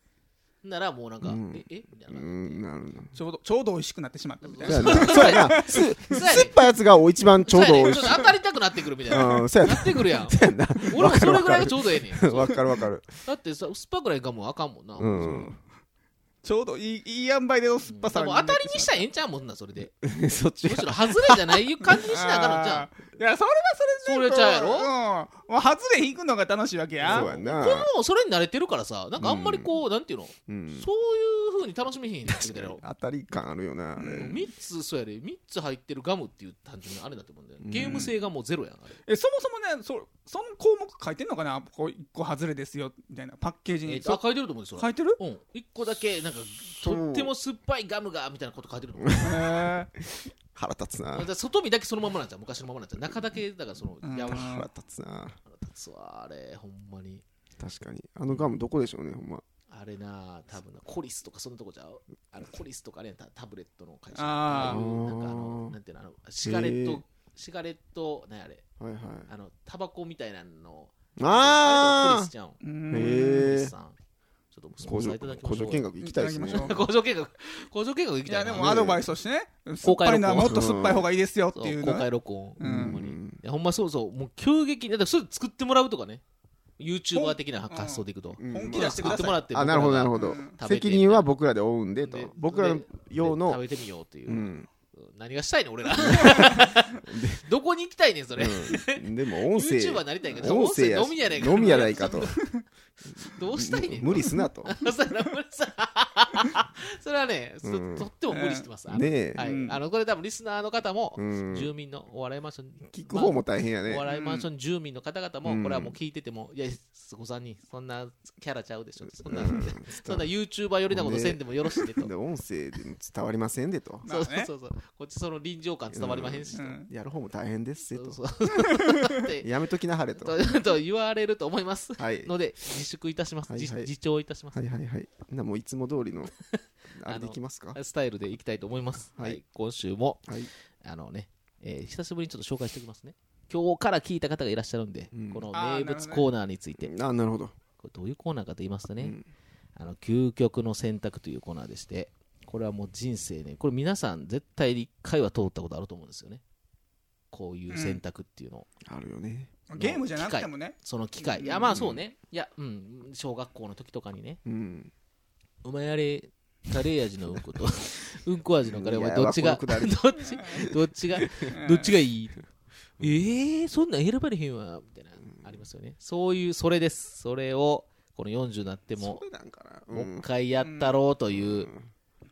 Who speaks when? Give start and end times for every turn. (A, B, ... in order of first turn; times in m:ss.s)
0:00.6-0:02.6 A
0:01.2-0:03.1 B
0:03.1-0:05.9 C
0:04.4-0:06.6 A
0:04.6-0:08.3 B
0:07.5-0:12.6 A
0:09.1-0:13.2 B
0:13.2-0:15.5 A
0:15.0-0:15.6 B
0:16.4-0:19.0 C
0:17.8-0:19.9 A
0:20.0-0:21.6 B
0:20.6-0:22.9 A
0:21.9-0:27.3 C
0:24.0-0:24.9 A
0:27.0-0:32.8 A
0:27.0-0:27.9 B
0:29.2-0:29.8 B
0:30.5-0:30.9 B
0:32.3-0:34.4 B
0:34.0-0:34.3 C
0:34.1-0:39.0 A
0:37.6-0:38.1 B
0:39.0-0:44.2 C
0:43.8-0:49.5 A
0:44.8-0:45.2 C
0:46.8-0:47.3 B
0:49.0-0:49.4 B
0:49.2-0:49.9 C
0:50.5-0:51.3 B
0:51.1-0:54.6 A
0:54.0-0:54.7 C
0:54.3-0:55.4 B
0:55.5-0:57.2 A
0:57.6-0:59.4 B
0:59.7-1:08.6 A
1:04.1-1:04.8 C
1:04.6-1:05.7 B
1:06.4-1:07.0 B
1:08.8-1:09.3 B
1:09.3-1:14.0 A
1:11.2-1:12.3 B
1:12.6-1:13.5 C
1:12.9-1:13.7 B
1:14.5-1:15.9 A
1:14.8-1:16.7 B
1:16.0-1:16.8 C
1:16.5-1:18.8 A
1:18.3-1:22.1 C
1:18.5-1:19.0 B
1:19.8-1:20.8 A
1:20.4-1:21.1 B
1:21.5-1:26.2 A
1:22.6-1:23.0 C
1:22.6-1:23.4 B
1:26.8-1:31.3 A
1:27.1-1:29.4 C
1:28.4-1:33.6 B
1:30.1-1:30.5 C
1:32.0-1:42.5 A
1:34.2-1:34.7 B
1:36.0-1:37.4 B
1:36.2-1:36.6 C
1:38.4-1:42.3 B
1:41.5-1:42.6 C
1:43.2-2:02.1 A
1:43.5-1:44.8 B
1:47.6-1:48.1 B
1:48.3-1:48.7 C
1:48.9-1:49.5 B
1:49.4-1:49.8 C
1:51.2-1:51.7 B
1:52.9-1:54.0 B
1:54.0-1:54.5 C
1:55.4-1:56.0 B
1:59.2-2:00.3 B
2:00.9-2:04.0 B
2:04.0-2:04.5 C
2:04.0-2:06.8 A
2:05.9-2:08.2 B
2:06.5-2:06.9 C
2:07.9-2:09.5 A
2:08.8-2:09.0 C
2:09.4-2:10.4 B
2:10.2-2:14.6 A
2:12.0-2:12.3 B
2:13.5-2:13.9 B
2:14.5-2:16.3 B
2:16.5-2:26.9 A
2:16.9-2:17.8 B
2:25.1-2:25.4 B
2:25.5-2:26.3 C
2:26.8-2:27.5 B
2:27.8-2:29.2 A
2:29.8-2:36.4 A
2:37.3-2:38.7 A
2:37.7-2:38.0 C
2:38.8-2:39.7 B
2:39.7-2:41.6 C
2:39.8-2:44.4 A
2:41.7-2:42.0 B
2:44.4-2:44.9 B
2:45.6-2:52.4 A
2:48.6-2:51.5 B
2:51.5-2:51.9 C
2:53.0-2:59.2 A
2:59.0-3:00.3 B
2:59.9-3:01.7 A
3:00.6-3:01.0 C
3:01.3-3:01.8 B